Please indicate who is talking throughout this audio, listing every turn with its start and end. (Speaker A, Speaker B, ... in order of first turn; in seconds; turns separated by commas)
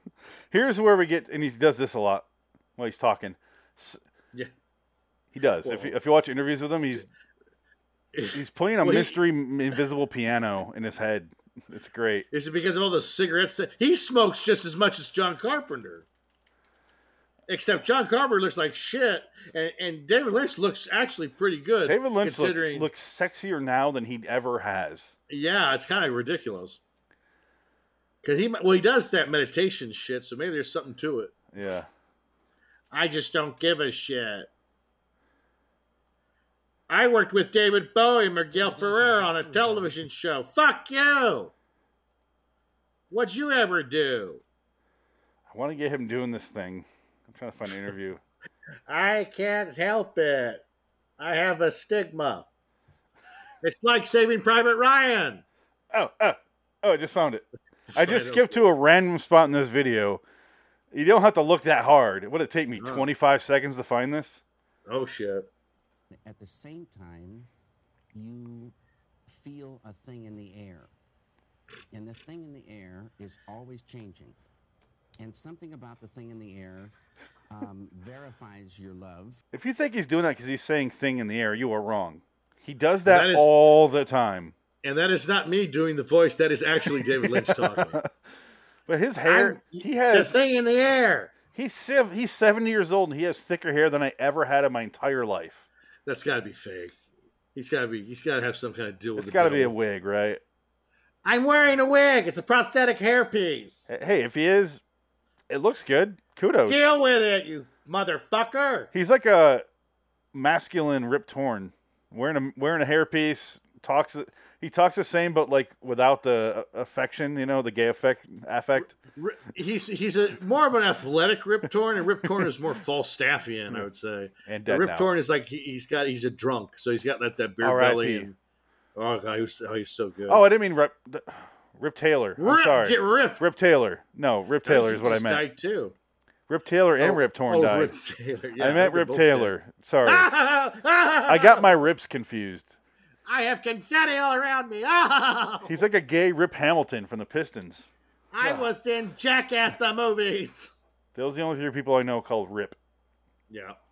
Speaker A: 0.5-4.0, Speaker A: 5.3-7.1, Speaker B: 5.6-5.9, Speaker B: 8.1-9.2, Speaker A: 8.3-12.3, Speaker B: 12.3-16.1, Speaker B: 17.5-22.9, Speaker A: 21.9-25.2, Speaker B: 25.3-26.8, Speaker B: 28.2-31.3, Speaker A: 31.5-31.9, Speaker B: 32.9-34.5, Speaker B: 36.9-41.5, Speaker B: 43.1-44.4, Speaker A: 45.5-48.2, Speaker B: 48.9-50.6, Speaker B: 51.2-52.5, Speaker B: 53.6-55.4, Speaker A: 55.9-60.2, Speaker B: 57.9-58.7, Speaker A: 60.9-64.4, Speaker B: 62.8-63.0, Speaker B: 64.9-65.5, Speaker C: 66.1-67.5, Speaker C: 68.1-68.7, Speaker C: 69.3-70.9, Speaker C: 71.9-74.3, Speaker C: 75.2-76.9, Speaker C: 77.5-79.4, Speaker A: 79.5-84.5, Speaker B: 83.0-83.5, Speaker B: 84.8-88.0, Speaker A: 87.1-88.1, Speaker A: 88.9-90.4, Speaker B: 89.2-91.3, Speaker A: 91.5-95.6, Speaker B: 96.0-97.0, Speaker B: 97.5-99.7, Speaker A: 99.2-100.4, Speaker B: 101.2-103.9, Speaker A: 103.9-104.8, Speaker A: 105.5-106.9, Speaker B: 106.7-108.9, Speaker A: 108.9-109.6, Speaker A: 110.3-119.0, Speaker B: 118.8-128.3, Speaker A: 124.5-125.1, Speaker A: 127.6-128.3, Speaker B: 128.9-130.4, Speaker A: 130.3-135.4, Speaker B: 132.4-133.4, Speaker B: 134.6-135.9, Speaker A: 136.5-137.9, Speaker B: 137.0-139.5, Speaker A: 138.6-140.3, Speaker B: 140.0-141.7, Speaker A: 141.3-142.8, Speaker B: 143.2-145.8, Speaker A: 145.7-147.8, Speaker B: 148.3-150.7, Speaker A: 148.4-148.7, Speaker A: 151.1-152.8, Speaker B: 153.5-153.8